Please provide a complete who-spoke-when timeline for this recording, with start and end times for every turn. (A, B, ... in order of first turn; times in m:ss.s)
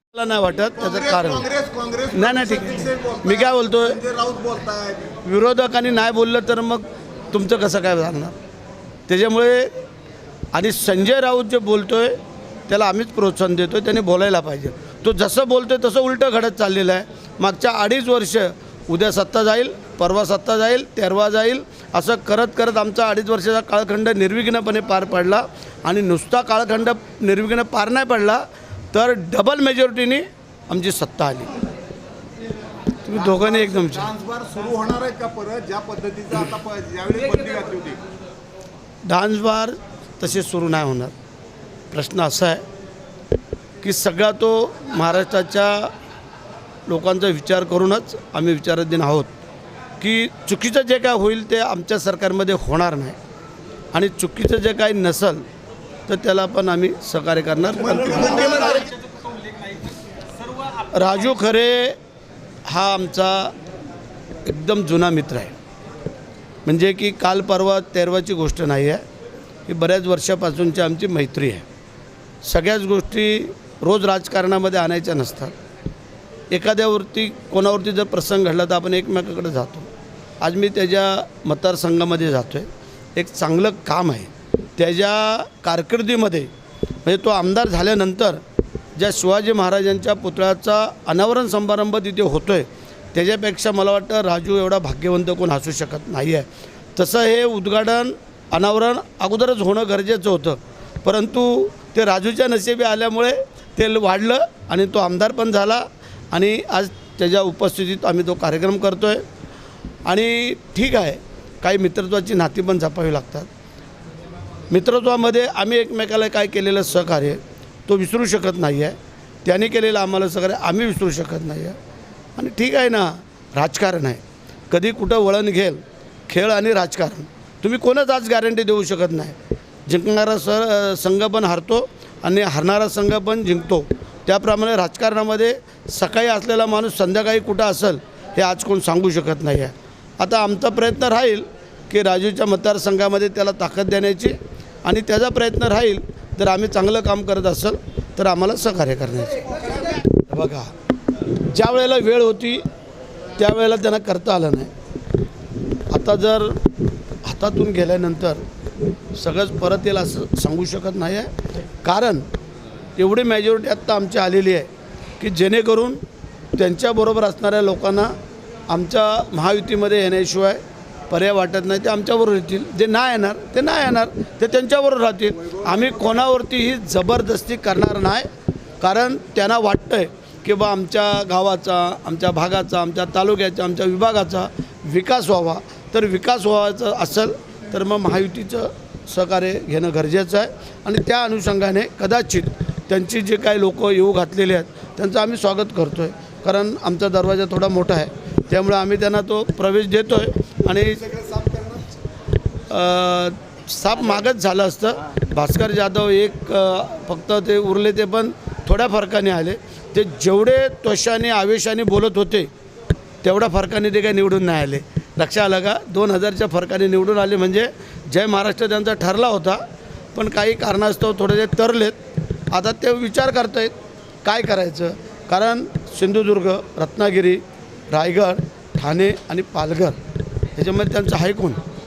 0:00.1-0:01.5 A
0:00.8-0:05.2 B
0:02.1-0:04.0 A
0:05.2-0:08.4 A
0:09.1-0:09.7 A
0:10.5-0:12.2 A
0:12.7-0:31.5 A
0:33.0-0:34.1 A
0:33.2-0:38.0 B
0:39.1-0:41.1 A
0:41.9-0:42.6 A
0:43.8-0:45.9 A
0:46.9-0:49.3 A
0:50.0-0:53.2 A
0:53.9-0:55.4 A
0:56.1-0:58.9 A
0:57.9-0:58.9 B
1:00.9-1:02.0 A
1:02.7-1:03.5 A
1:04.4-1:05.5 A
1:06.6-1:09.0 A
1:09.7-1:11.6 A
1:12.4-1:15.6 A
1:16.5-1:19.9 A
1:20.4-1:26.5 A
1:27.0-1:28.4 A
1:29.0-1:49.2 A
1:50.1-1:53.5 A
1:54.7-2:01.8 A
2:02.4-2:09.4 A
2:09.9-2:29.6 A
2:30.3-2:30.7 A
2:31.4-2:32.6 A
2:33.4-2:34.7 A
2:35.9-2:36.6 A
2:37.2-2:38.4 A
2:39.1-2:41.3 A
2:41.8-2:42.3 A
2:43.0-2:44.7 A
2:45.2-2:46.0 A
2:46.6-2:48.1 A
2:48.7-2:58.3 A
2:55.5-2:55.8 B
2:58.8-3:21.0 A
3:20.9-3:22.0 B
3:22.7-3:32.5 A
3:33.2-3:39.6 A
3:40.2-3:42.0 A
3:42.5-3:50.0 A
3:50.6-3:51.6 A